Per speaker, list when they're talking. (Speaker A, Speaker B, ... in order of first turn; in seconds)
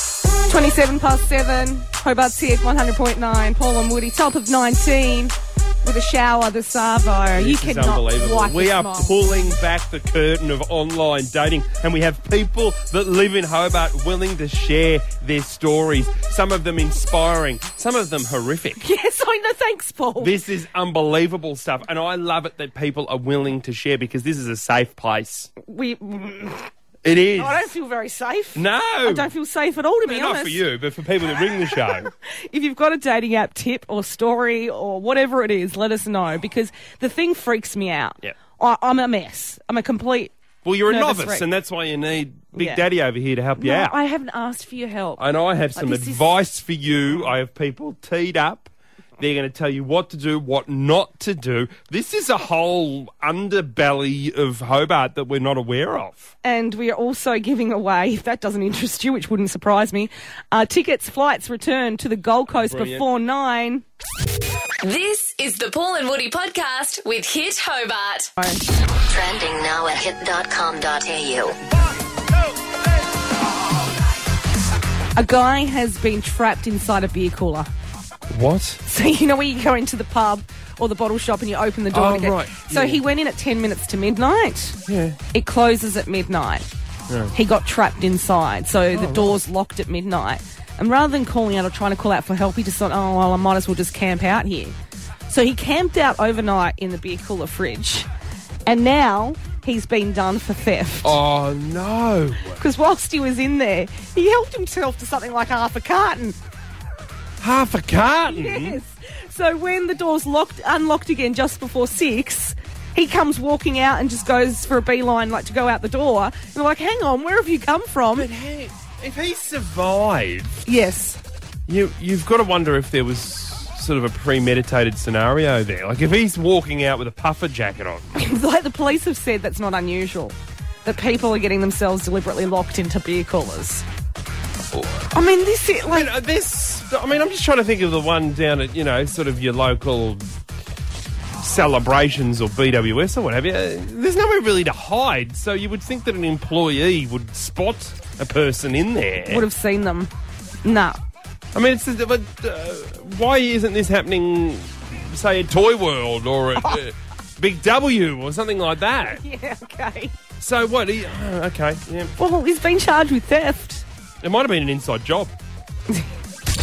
Speaker A: 0.4-9.3, 18.8-20.3, 25.6-26.7, 27.4-30.6, 31.8-40.3, 40.9-41.5, 42.5-42.8, 43.6-46.2, 56.4-63.8, 68.4-68.6, 75.2-77.7, 78.8-84.8, 85.3-86.7, 87.3-94.7, 95.3-98.1, 98.7-101.1, 102.5-106.4, 108.3-118.3, 120.7-121.2, 128.1-133.8, 135.1-136.1, 149.3-150.1, 150.6-151.0, 159.0-160.1, 162.2-163.8
Speaker B: 7.3-18.8, 20.2-25.5, 27.0-27.7, 28.5-29.3, 30.0-32.1, 40.6-43.9, 45.2-56.3, 62.6-63.1, 78.3-78.8, 81.9-83.0, 84.9-85.2, 88.9-89.4, 101.0-102.6, 107.4-108.8, 118.1-120.6, 121.7-128.1, 134.7-135.1, 135.9-140.3, 141.4-149.4, 151.5-159.2, 160.4-162.1, 164.2-165.3
Speaker C: 64.8-68.3
Speaker D: 69.1-71.6